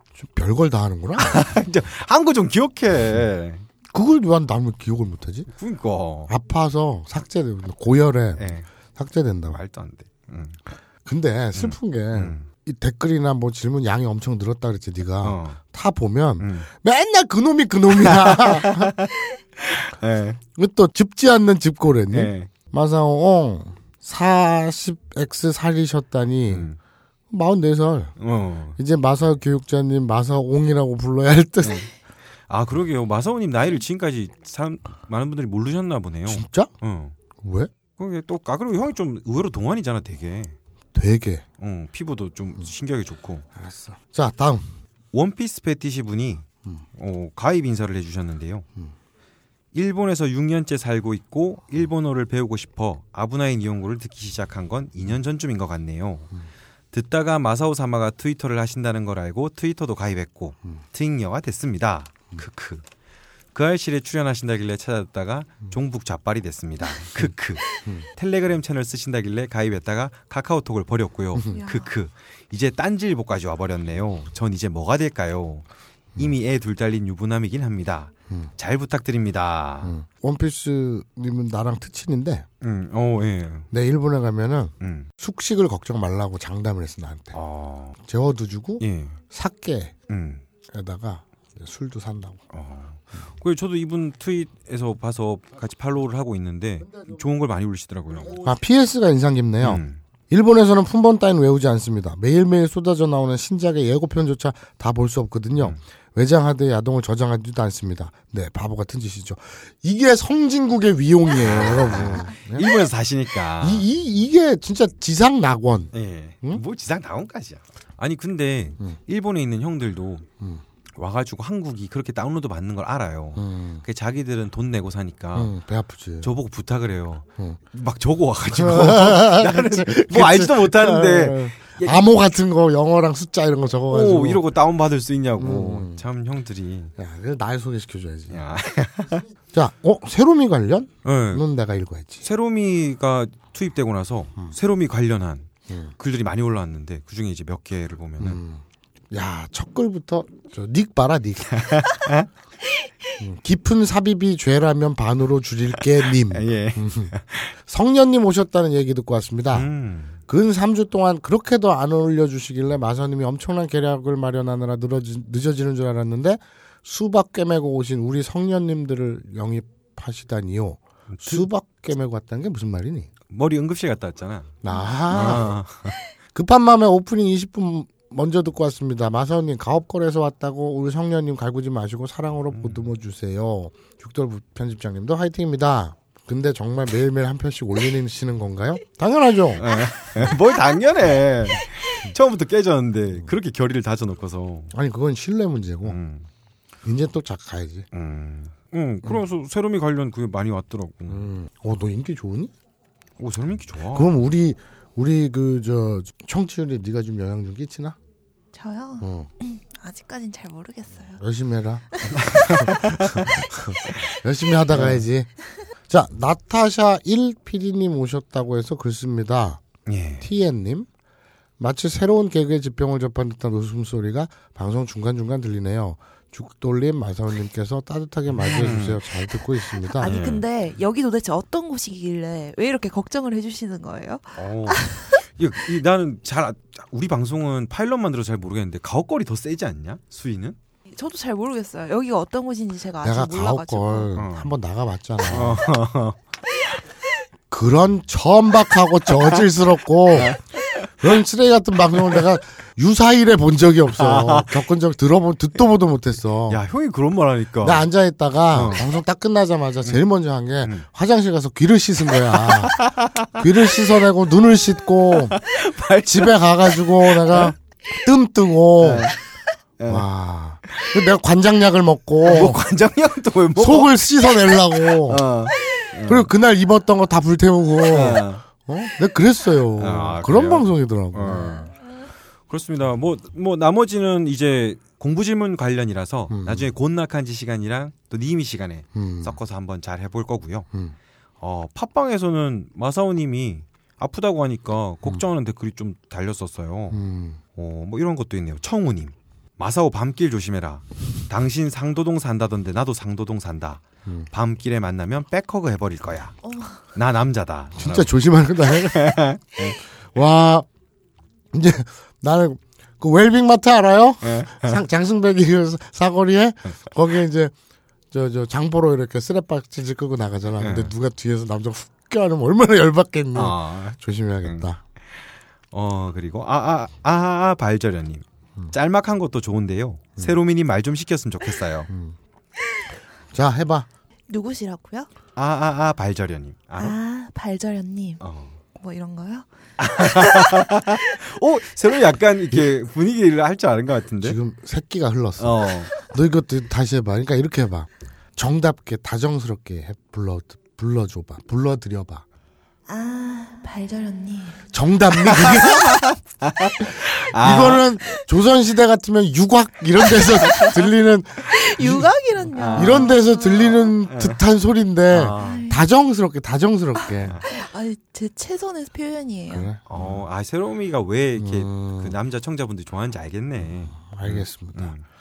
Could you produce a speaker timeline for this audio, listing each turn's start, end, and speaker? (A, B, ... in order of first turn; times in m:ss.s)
0:00.2-0:01.4 A
0:01.2-0:03.6 B
0:03.9-0:05.5 A
0:05.5-0:06.3 B
0:06.3-0:09.6 A
0:08.4-0:08.7 B
0:09.5-0:10.6 B
0:11.0-0:18.9 A
0:11.6-0:12.5 B
0:15.2-0:15.6 B
0:16.4-0:16.7 B
0:18.0-0:20.4 B
0:20.6-0:26.7 A
0:22.1-0:22.5 B
0:26.5-0:26.8 B
0:27.3-0:28.1 A
0:28.2-0:28.8 B
0:28.8-0:31.8 A
0:31.6-0:31.9 B
0:32.5-0:37.2 B
0:36.3-0:36.7 A
0:37.4-0:37.7 A
0:38.0-0:40.6 B
0:40.9-0:41.4 A
0:41.6-0:43.5 B
0:43.6-0:44.7 A
0:45.1-0:48.7 B
0:49.7-0:56.3 B
0:56.9-1:02.8 B
1:03.5-1:07.6 B
1:08.2-1:15.6 B
1:11.5-1:11.9 C
1:16.2-1:19.9 B
1:19.8-1:22.5 A
1:22.6-1:23.7 B
1:23.7-1:27.4 A
1:24.8-1:25.1 B
1:27.3-1:28.0 B
1:28.0-1:29.9 A
1:28.8-1:29.2 B
1:30.1-1:30.4 B
1:30.7-1:32.4 A
1:32.5-1:38.5 B
1:38.3-1:52.7 A
1:39.6-1:40.0 B
1:45.6-1:45.8 B
1:51.4-1:53.9 B
1:53.6-1:55.9 A
1:55.9-2:00.3 B
2:01.0-2:05.5 B
2:03.4-2:03.8 A
2:05.4-2:06.3 A
2:06.2-2:12.1 B
2:08.5-2:14.4 A
2:13.9-2:16.9 B
2:15.4-2:16.0 A
2:17.0-2:18.4 A
2:18.3-2:19.2 B
2:19.5-2:22.2 A
2:21.0-2:21.4 B
2:22.2-2:28.4 B
2:25.7-2:25.9 A
2:28.2-2:31.7 A
2:31.6-2:32.3 B
2:33.2-2:37.1 A
2:35.8-2:37.5 B
2:37.7-2:39.7 A
2:39.5-2:40.2 B
2:40.3-2:53.1 A
2:51.1-2:51.5 B
2:53.3-2:54.5 B
2:54.6-2:55.6 A
2:55.1-2:56.0 B
2:56.4-3:09.6 A
3:02.5-3:02.9 B
3:09.6-3:14.7 B
3:14.7-3:16.0 A
3:15.8-3:16.3 B
3:16.8-3:17.9 A
3:17.9-3:21.3 B
3:21.1-3:22.5 A
3:23.2-3:24.1 B
3:23.9-3:28.0 A
3:28.5-3:31.2 C
3:29.0-3:29.3 A
3:31.2-3:35.3 A
3:32.2-3:33.3 B
3:34.7-3:35.0 B
3:35.9-3:39.6 A
3:39.9-3:40.3 B
3:40.2-3:40.9 A
3:41.6-3:50.2 A
3:48.3-3:49.0 B
3:49.8-3:55.2 C
3:50.0-3:50.4 B
3:54.4-4:00.6 B
4:00.9-4:04.2 C
4:03.0-4:05.6 A
4:04.2-4:04.5 B
4:05.2-4:06.2 B
4:07.5-4:10.4 A
4:10.1-4:10.9 B
4:11.0-4:16.6 A
4:14.0-4:14.6 B
4:16.5-4:17.9 B
4:17.6-4:22.8 A
4:18.5-4:18.9 B
4:22.2-4:23.8 B
4:23.3-4:25.4 A
4:25.1-4:27.5 B
4:26.0-4:29.1 A
4:28.8-4:29.2 B
4:29.8-4:30.0 B
4:29.9-4:32.6 A
4:32.2-4:34.0 B
4:33.6-4:35.2 A
4:35.1-4:36.3 B
4:36.1-4:41.6 A
4:37.9-4:38.4 B
4:39.8-4:41.7 B
4:42.5-4:50.7 B
4:46.3-4:46.7 A
4:48.9-4:49.4 A
4:51.4-4:57.0 B
4:56.9-4:57.4 A
4:57.6-5:06.4 B
5:04.0-5:04.3 A
5:06.4-5:06.8 C
5:06.9-5:08.1 B
5:07.8-5:09.2 A
5:08.6-5:09.8 B
5:10.1-5:10.7 A
5:11.5-5:17.5 A
5:14.2-5:14.8 B
5:18.1-5:24.8 A
5:20.6-5:20.9 B
5:23.3-5:24.7 B
5:25.7-5:31.9 B
5:31.9-5:32.2 A
5:33.3-5:33.9 A
5:34.3-5:35.1 C
5:35.4-5:37.0 B
5:36.8-5:38.2 C
5:38.2-5:38.5 B
5:38.8-5:39.5 C
5:39.8-5:44.4 B
5:40.1-5:40.5 C
5:44.2-5:52.2 A
5:45.4-5:45.9 B
5:52.9-5:54.6 C
5:54.7-5:56.1 A
5:55.2-5:57.8 B
5:56.8-6:07.4 A
6:01.5-6:03.8 C
6:02.5-6:03.2 B
6:04.1-6:04.4 B
6:05.1-6:05.6 B
6:05.4-6:05.8 C
6:07.5-6:09.7 C
6:09.5-6:10.2 A
6:09.9-6:15.0 B
6:11.4-6:12.2 A
6:13.6-6:15.0 A